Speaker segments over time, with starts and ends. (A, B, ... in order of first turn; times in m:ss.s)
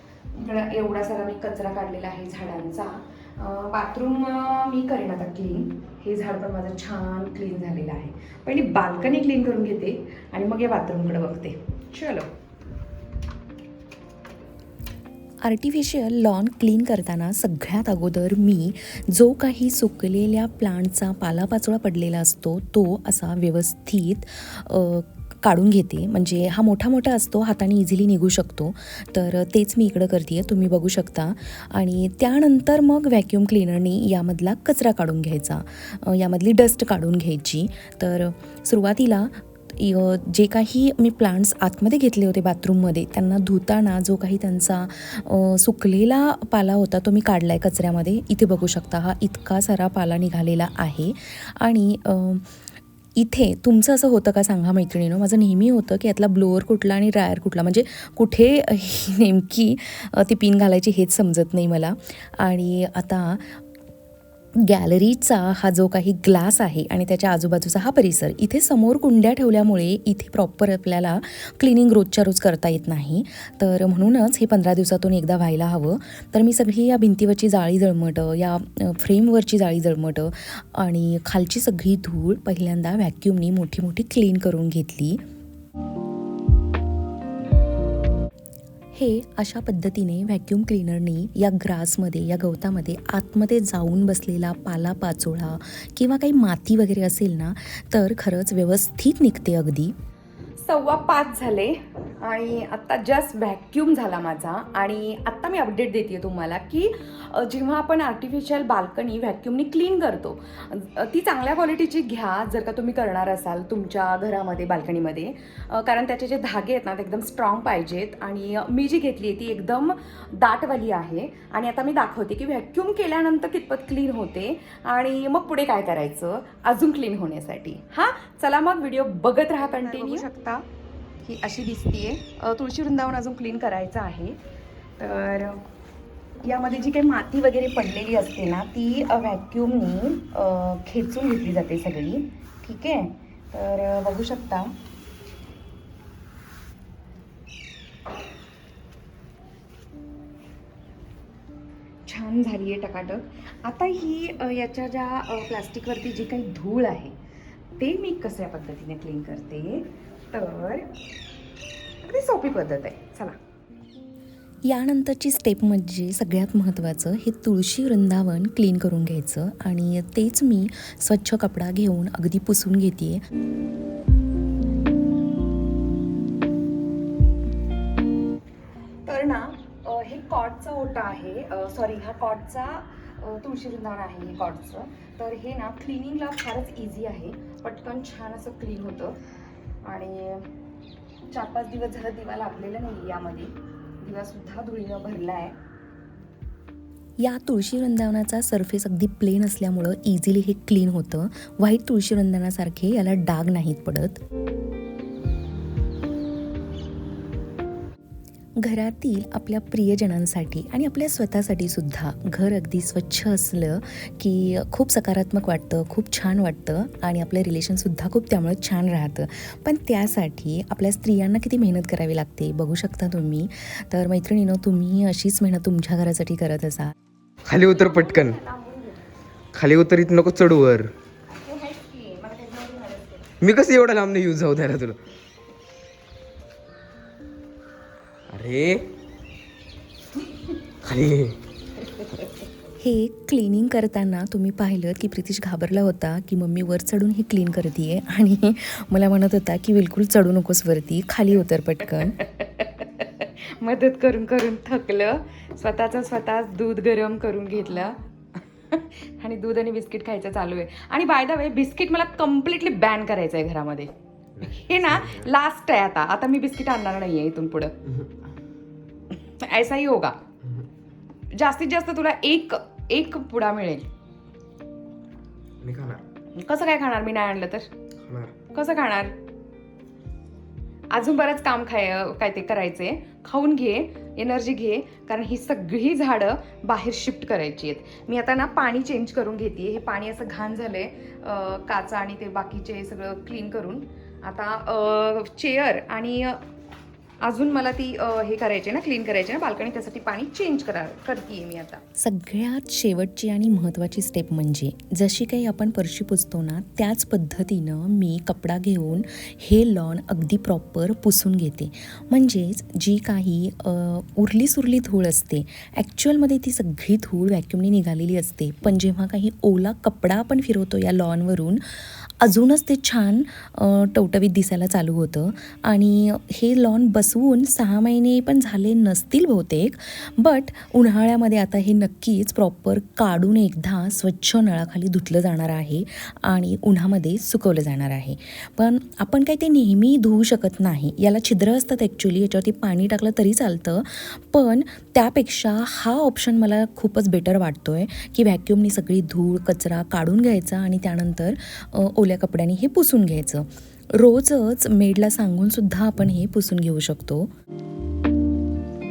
0:00.3-0:12.3 A
0:15.4-0:52.5 B
0:53.2-1:03.6 B
1:04.6-1:25.2 B
1:28.9-1:39.9 B
1:40.6-2:10.6 A
2:11.2-2:14.4 A
2:15.0-2:15.6 A
2:16.4-2:24.7 A
2:32.0-2:37.1 A
2:37.8-2:40.8 A
2:42.0-2:43.4 A
2:44.7-2:53.2 B
2:59.0-3:09.2 A
3:09.8-3:10.4 A
3:11.3-3:15.5 A
3:17.2-3:24.2 B
3:28.6-3:46.9 B
3:47.5-3:48.4 C
3:47.5-3:49.1 A
3:49.5-3:50.9 C
3:51.3-3:53.3 A
3:53.4-3:55.0 C
3:58.3-3:58.8 C
4:00.8-4:01.4 C
4:02.8-4:12.2 B
4:12.0-4:27.7 A
4:24.4-4:25.2 C
4:29.3-4:30.2 A
4:31.3-4:33.9 A
4:35.6-4:36.0 C
4:36.3-4:37.7 A
4:38.0-4:38.3 C
4:38.5-4:39.2 A
4:40.9-4:56.4 A
4:57.2-5:01.8 A
5:02.0-5:57.3 B